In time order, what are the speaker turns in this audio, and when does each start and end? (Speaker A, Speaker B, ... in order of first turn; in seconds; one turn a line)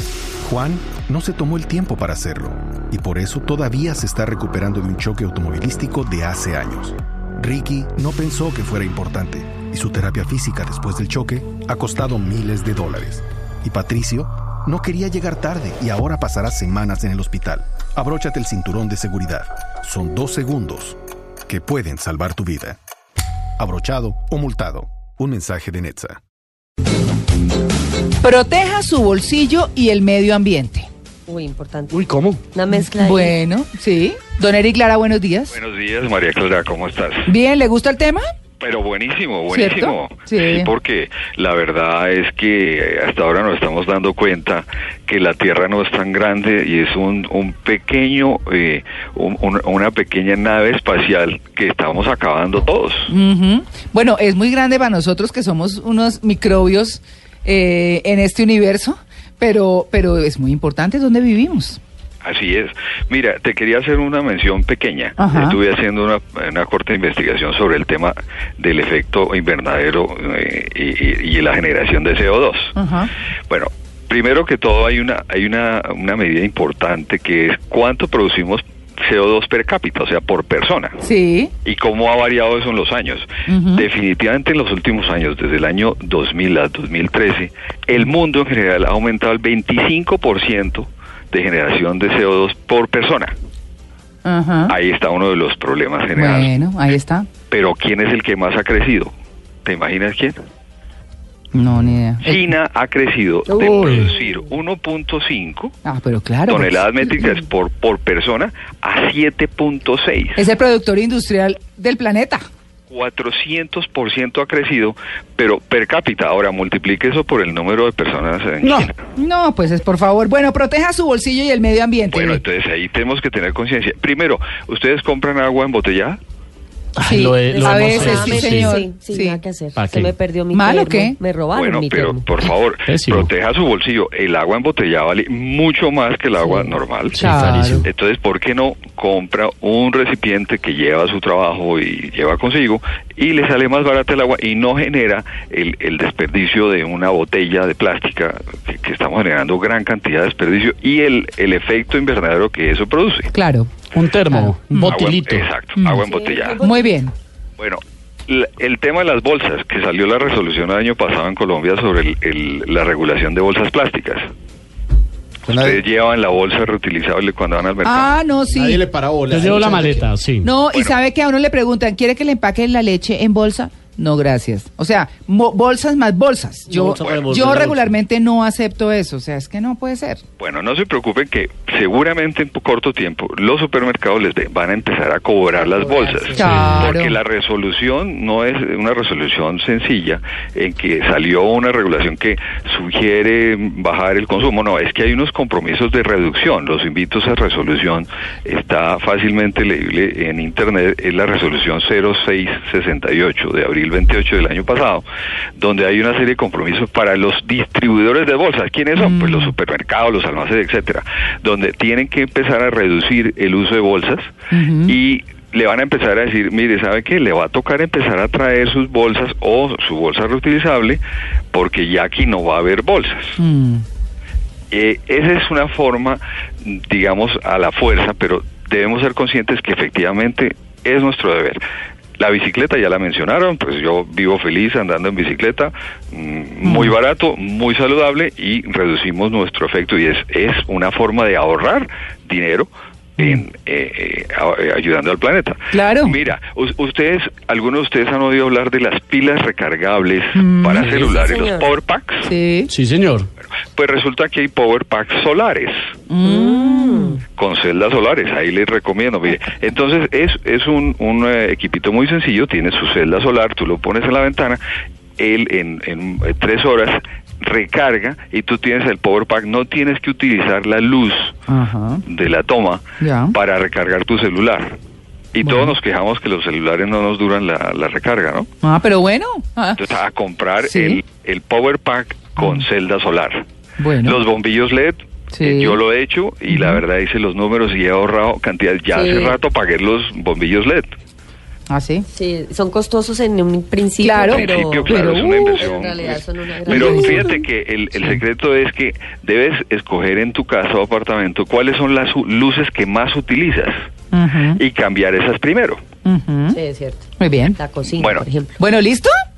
Speaker A: 0.4-22.8
Speaker A: 23.6-26.2
Speaker B: 28.2-30.9
Speaker C: 31.3-33.4
Speaker D: 31.9-32.4
Speaker B: 32.7-35.6
Speaker E: 35.5-37.3
Speaker B: 37.2-38.2
Speaker E: 38.6-53.1
Speaker B: 39.5-40.7
Speaker B: 53.1-61.8
Speaker E: 62.2-72.8
Speaker B: 65.2-65.6
Speaker B: 72.8-73.1
Speaker E: 73.5-81.0
Speaker B: 81.0-81.5
Speaker E: 81.6-93.3
Speaker B: 83.5-83.9
Speaker B: 94.2-94.7
Speaker E: 94.7-96.5
Speaker B: 96.1-97.3
Speaker E: 97.5-99.1
Speaker E: 99.6-100.3
Speaker B: 101.5-102.5
Speaker E: 102.2-105.7
Speaker C: 103.5-104.4
Speaker D: 103.6-104.1
Speaker B: 105.8-107.3
Speaker E: 106.5-110.4
Speaker B: 110.3-112.4
Speaker E: 112.9-118.9
Speaker D: 118.6-118.9
Speaker B: 119.2-122.4
Speaker E: 122.1-126.2
Speaker D: 127.0-128.8
Speaker B: 127.0-129.4
Speaker C: 127.3-132.4
Speaker D: 129.7-130.2
Speaker B: 130.5-131.2
Speaker E: 131.5-137.2
Speaker D: 132.9-133.3
Speaker C: 136.3-136.8
Speaker D: 137.1-137.9
Speaker B: 137.2-137.8
Speaker E: 137.8-153.3
Speaker B: 153.3-153.7
Speaker D: 153.9-155.5
Speaker B: 154.3-155.0
Speaker E: 154.9-156.6
Speaker B: 155.8-156.0
Speaker C: 155.9-157.0
Speaker B: 156.6-157.1
Speaker E: 157.6-164.2
Speaker F: 165.5-165.8
Speaker E: 165.5-168.1
Speaker B: 167.8-168.8
Speaker F: 168.5-170.1
Speaker D: 169.3-170.5
Speaker B: 169.4-180.2
Speaker D: 176.7-177.9
Speaker E: 177.0-177.4
Speaker E: 180.4-205.0
Speaker C: 185.5-186.7
Speaker B: 186.3-187.2
Speaker D: 186.4-186.9
Speaker E: 205.6-214.3
Speaker B: 208.9-209.5
Speaker B: 214.5-215.0
Speaker E: 214.8-221.0
Speaker E: 221.5-223.4
Speaker B: 223.4-223.8
Speaker E: 224.7-231.6
Speaker E: 232.2-252.3
Speaker B: 236.6-236.9
Speaker B: 245.7-246.2
Speaker B: 250.3-250.9
Speaker C: 250.8-251.7
Speaker B: 252.2-252.7
Speaker D: 252.7-253.3
Speaker E: 253.7-255.7
Speaker B: 256.1-257.2
Speaker C: 256.2-257.2
Speaker E: 257.2-264.6
Speaker E: 265.2-271.4
Speaker B: 271.5-272.0
Speaker E: 272.1-274.8
Speaker B: 273.0-273.3
Speaker E: 275.3-278.5
Speaker B: 275.4-275.7
Speaker B: 278.6-279.8
Speaker E: 279.8-283.4
Speaker B: 280.6-281.0
Speaker B: 282.4-282.6
Speaker B: 283.8-284.2
Speaker E: 284.0-290.9
Speaker B: 285.3-285.8
Speaker B: 286.5-286.8
Speaker C: 288.9-289.4
Speaker B: 291.7-292.1
Speaker C: 292.1-297.4
Speaker B: 294.0-295.6
Speaker E: 294.3-303.7
Speaker B: 296.7-297.3
Speaker B: 304.1-304.6
Speaker E: 304.5-305.8
Speaker B: 306.0-306.6
Speaker C: 306.5-308.6
Speaker B: 307.2-307.6
Speaker E: 307.9-308.3
Speaker B: 308.6-309.1